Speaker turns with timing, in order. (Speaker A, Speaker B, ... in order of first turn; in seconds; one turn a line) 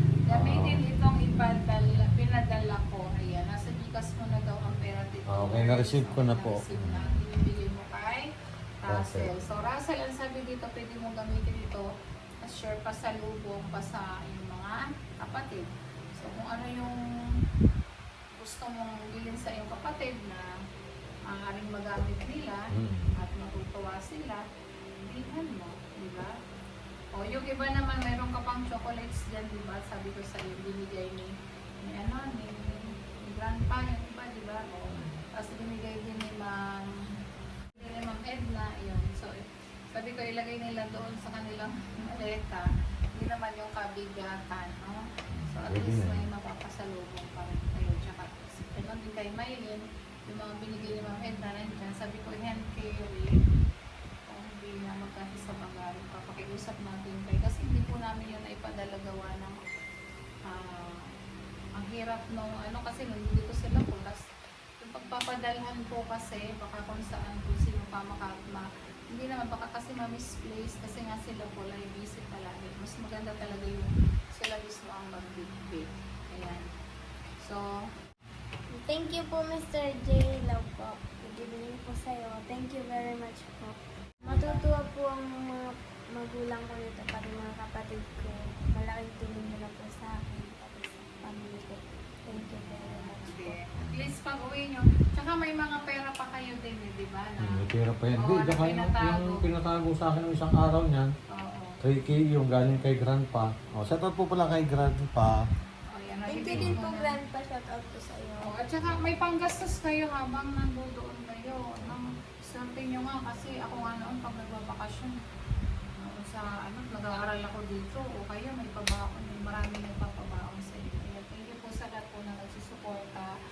Speaker A: 0.3-8.2
Speaker B: 0.3-0.8
Speaker B: 5.3-7.1
Speaker A: 8.8-11.9
Speaker B: 8.9-9.4
Speaker A: 12.4-17.0
Speaker A: 18.4-20.5
Speaker A: 21.3-22.6
Speaker B: 22.7-23.1
Speaker A: 23.2-24.4
Speaker A: 25.0-26.3
Speaker A: 27.1-31.3
Speaker A: 31.8-36.8
Speaker B: 34.9-35.2
Speaker A: 37.8-39.4
Speaker A: 39.9-42.6
Speaker A: 43.2-45.0
Speaker B: 45.3-46.2
Speaker A: 45.5-53.3
Speaker A: 54.3-59.6
Speaker A: 60.5-61.0
Speaker A: 61.8-64.2
Speaker A: 64.8-76.7
Speaker C: 78.7-93.6
Speaker A: 84.2-84.7
Speaker A: 92.8-99.5
Speaker B: 93.8-94.1
Speaker B: 97.4-101.1
Speaker A: 101.3-101.8
Speaker B: 101.8-105.3
Speaker A: 105.9-107.2
Speaker C: 106.3-108.5
Speaker B: 106.5-106.8
Speaker A: 108.4-115.2
Speaker B: 108.8-109.1
Speaker A: 116.0-123.3